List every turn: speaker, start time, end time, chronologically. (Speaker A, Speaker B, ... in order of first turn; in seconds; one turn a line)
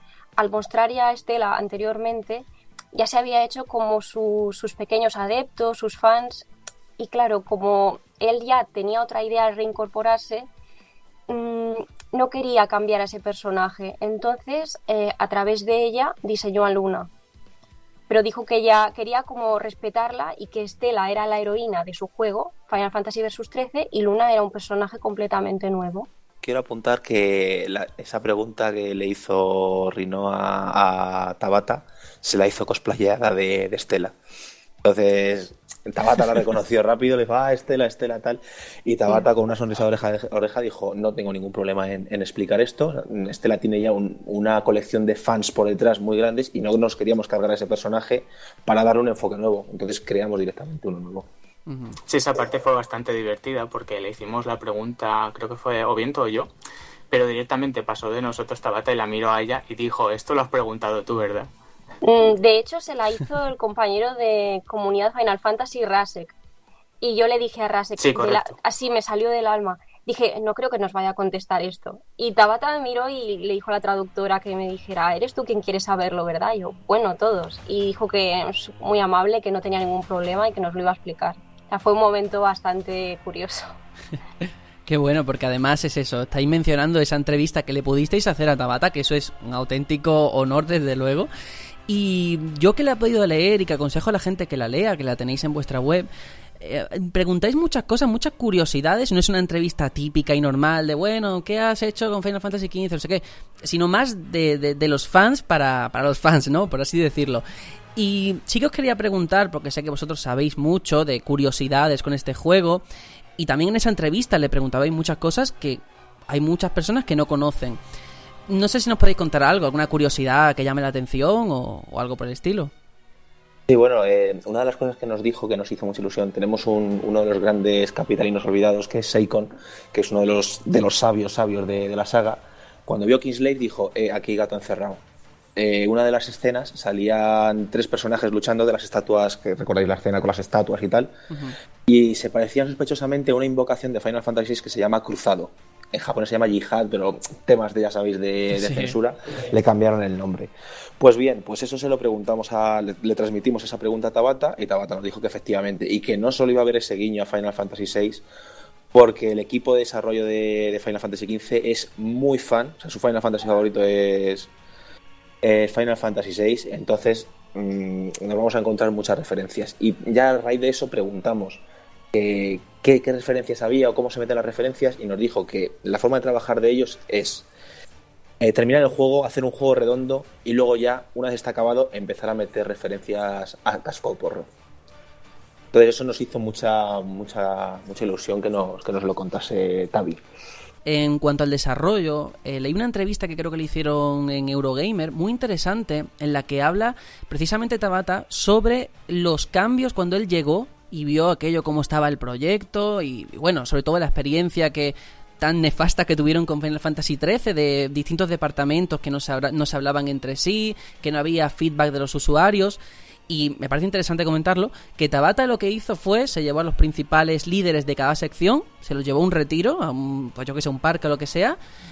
Speaker A: 0.4-6.5
Speaker A: 7.0-10.5
Speaker A: 11.3-17.1
Speaker A: 18.1-26.1
Speaker B: 26.4-34.1
Speaker B: 34.8-51.3
Speaker C: 51.7-52.0
Speaker D: 52.1-56.5
Speaker D: 57.1-61.5
Speaker A: 62.0-66.3
Speaker A: 67.0-83.7
Speaker D: 68.0-68.5
Speaker C: 84.9-91.3
Speaker C: 91.9-96.1
Speaker C: 96.6-107.4
Speaker C: 108.0-112.8
Speaker C: 113.4-117.8
Speaker C: 118.5-122.7
Speaker B: 123.7-135.0
Speaker B: 135.6-141.1
Speaker C: 141.3-141.6
Speaker B: 141.9-158.2
Speaker C: 148.5-149.0
Speaker B: 158.9-164.5
Speaker B: 165.4-171.6
Speaker B: 172.1-177.5
Speaker B: 178.4-184.5
Speaker B: 185.7-190.2
Speaker C: 190.9-221.6